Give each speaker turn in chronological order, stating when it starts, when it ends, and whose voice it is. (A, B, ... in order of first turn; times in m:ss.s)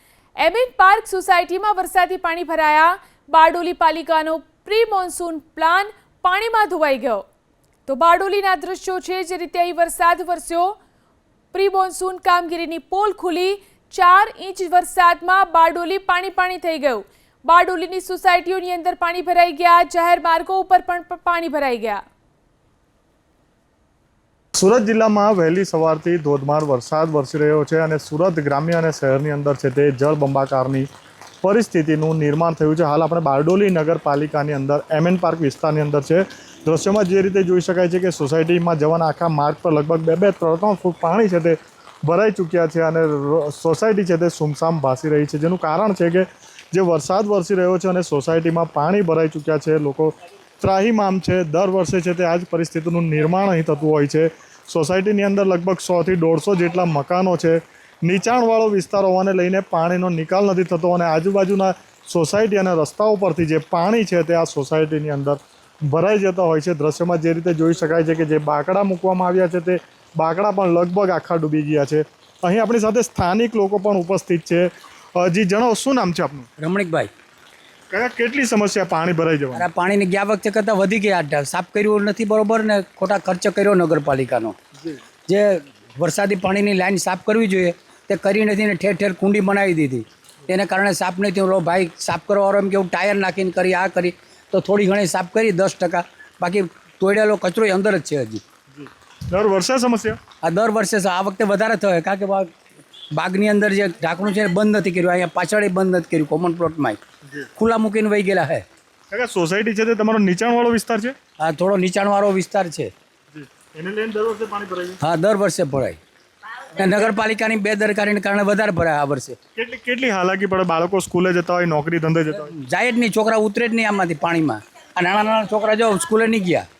0:00.4-0:07.2 A
0:07.9-0:10.8 A
0:11.5-0:22.0 A
0:24.6-0:30.9 B
0:31.4-1:16.5 B
1:16.6-1:17.1 C
1:17.9-1:19.7 B
1:19.5-1:24.6 C
1:25.3-1:38.4 C
1:38.7-1:40.2 B
1:40.4-1:42.5 C
1:43.1-1:47.0 C
1:47.6-1:48.6 C
1:49.1-1:51.2 B
1:51.4-1:52.9 C
1:53.3-1:55.0 B
1:55.0-1:56.0 C
1:56.8-1:59.4 C
1:59.6-2:02.5 B
2:02.3-2:06.7 C